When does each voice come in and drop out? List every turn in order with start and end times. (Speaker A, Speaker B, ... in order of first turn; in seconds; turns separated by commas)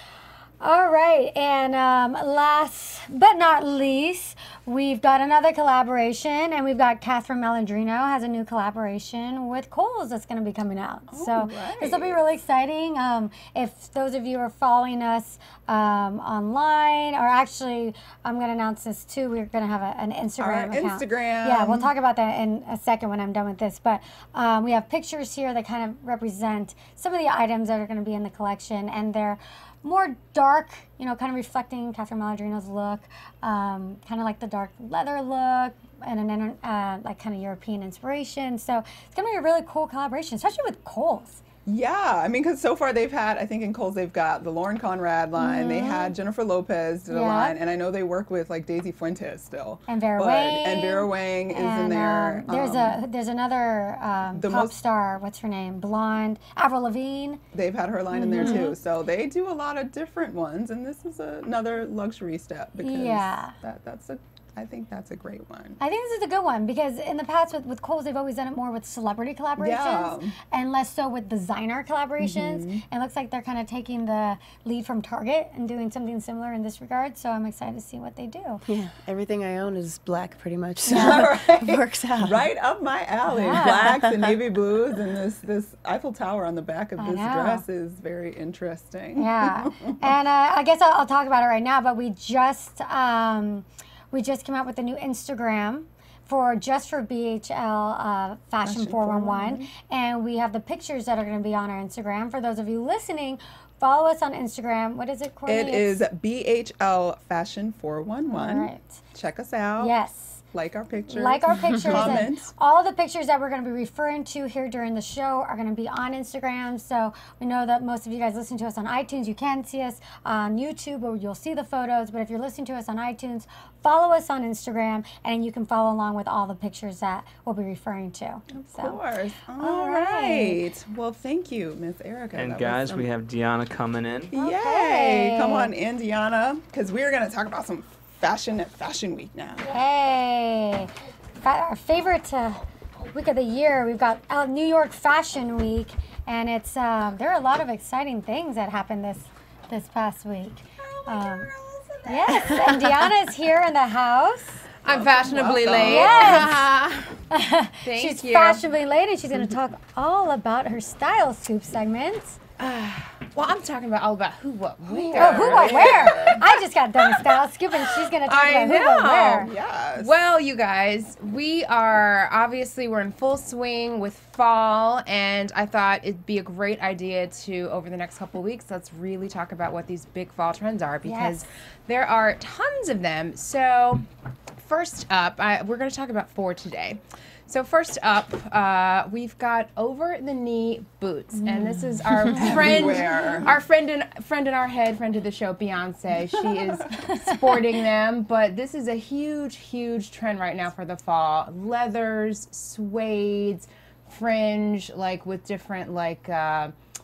Speaker A: 0.6-41.4, Speaker B: 11.1-12.2, Speaker B: 20.4-21.9, Speaker B: 41.7-53.0, Speaker A: 45.4-46.1, Speaker A: 47.1-47.6, Speaker A: 49.9-57.4, Speaker B: 54.3-54.8, Speaker B: 57.5-65.8, Speaker A: 58.1-58.8, Speaker A: 62.8-63.6, Speaker A: 65.8-78.6, Speaker B: 69.6-70.3, Speaker B: 72.2-72.8, Speaker C: 78.7-82.5, Speaker A: 80.9-81.2, Speaker B: 80.9-90.1, Speaker A: 83.3-83.8, Speaker C: 83.5-84.4, Speaker A: 87.0-87.7, Speaker A: 89.2-106.0, Speaker B: 98.6-99.7, Speaker B: 105.5-109.9, Speaker A: 108.3-109.0, Speaker A: 109.8-110.4, Speaker B: 110.5-112.5, Speaker A: 111.1-129.0, Speaker B: 128.5-133.1, Speaker A: 129.6-130.6, Speaker D: 132.3-134.3, Speaker A: 134.3-135.7, Speaker B: 134.3-139.7, Speaker A: 139.6-151.5, Speaker B: 150.8-153.0, Speaker A: 152.1-154.6, Speaker E: 154.8-157.2, Speaker B: 154.8-156.6, Speaker A: 155.8-156.6, Speaker A: 157.3-162.4, Speaker E: 157.9-158.6, Speaker E: 162.6-166.3, Speaker B: 164.9-166.4, Speaker A: 165.2-169.5, Speaker E: 168.1-184.1, Speaker B: 169.4-170.2, Speaker A: 181.1-181.4, Speaker E: 184.6-206.7, Speaker A: 191.5-192.0, Speaker B: 192.3-193.5, Speaker B: 196.6-197.1